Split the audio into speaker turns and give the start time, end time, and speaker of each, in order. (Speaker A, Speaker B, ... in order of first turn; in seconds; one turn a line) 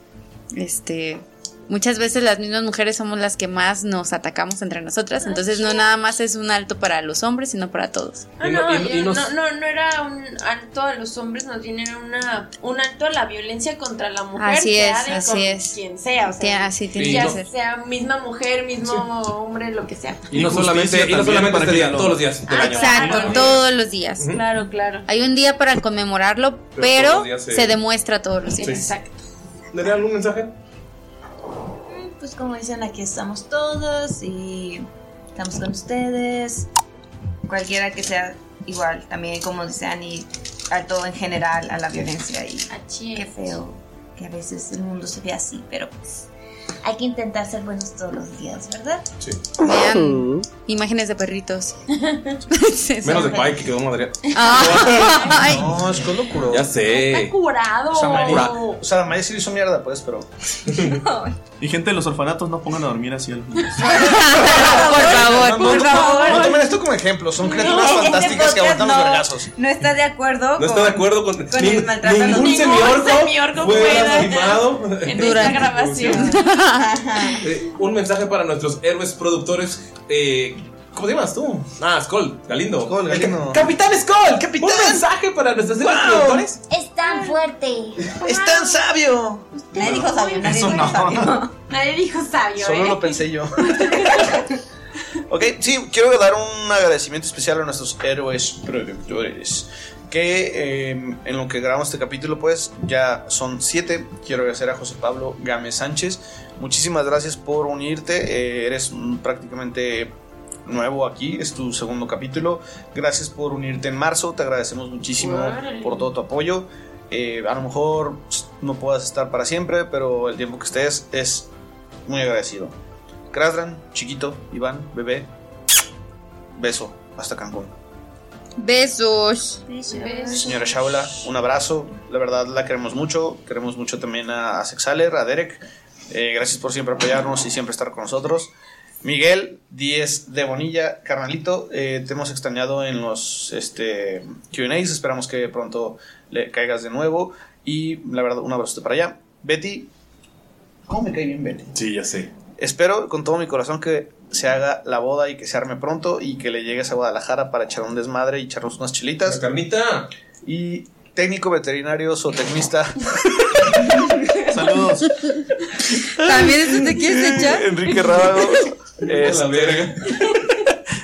Speaker A: 0.6-8.3
Speaker B: 5.2-5.9
Speaker B: 8.4-20.3
Speaker C: 8.4-9.3
Speaker A: 14.4-15.8
Speaker A: 16.3-17.5
Speaker C: 16.9-17.4
Speaker D: 20.3-22.3
Speaker C: 20.3-23.6
Speaker A: 22.4-24.4
Speaker B: 22.7-23.6
Speaker B: 24.3-25.1
Speaker A: 25.1-28.9
Speaker C: 26.8-27.8
Speaker B: 28.6-29.2
Speaker C: 29.7-30.5
Speaker E: 31.9-36.7
Speaker E: 37.5-46.3
Speaker B: 42.7-43.3
Speaker E: 46.8-49.0
Speaker A: 49.6-51.8
Speaker B: 52.0-52.4
Speaker A: 52.5-53.6
Speaker C: 53.0-55.5
Speaker A: 54.3-55.8
Speaker B: 55.1-55.5
Speaker F: 55.4-56.7
Speaker C: 56.5-57.4
Speaker B: 56.7-58.8
Speaker F: 57.9-60.3
Speaker C: 58.3-58.6
Speaker C: 60.7-61.0
Speaker E: 60.8-61.4
Speaker D: 61.6-63.8
Speaker E: 63.8-66.6
Speaker A: 63.8-66.4
Speaker B: 64.9-66.7
Speaker F: 65.2-69.5
Speaker E: 67.4-73.0
Speaker B: 67.4-68.4
Speaker C: 70.6-76.3
Speaker B: 72.3-76.4
Speaker A: 75.1-76.9
Speaker E: 76.0-77.5
Speaker C: 77.4-86.6
Speaker F: 80.9-81.7
Speaker F: 82.9-83.7
Speaker F: 84.6-85.0
Speaker F: 85.8-86.5
Speaker E: 86.7-88.1
Speaker B: 87.0-87.4
Speaker B: 88.1-88.8
Speaker F: 88.1-90.1
Speaker B: 89.6-90.9
Speaker E: 89.7-91.6
Speaker D: 89.8-91.5
Speaker B: 91.7-94.3
Speaker F: 92.6-94.4
Speaker F: 95.3-110.1
Speaker F: 110.7-121.5
Speaker B: 115.2-116.1
Speaker F: 122.1-122.7
Speaker F: 123.3-125.3
Speaker F: 126.5-127.7
Speaker A: 128.6-129.6
Speaker E: 129.7-130.7
Speaker B: 129.9-130.7
Speaker F: 130.4-138.5
Speaker F: 139.0-149.9
Speaker F: 150.9-151.7
Speaker C: 151.7-152.3
Speaker F: 152.6-159.4
Speaker C: 159.2-160.1
Speaker F: 160.4-164.1
Speaker D: 164.5-165.1
Speaker F: 165.9-170.7
Speaker A: 166.2-167.8
Speaker C: 169.0-170.3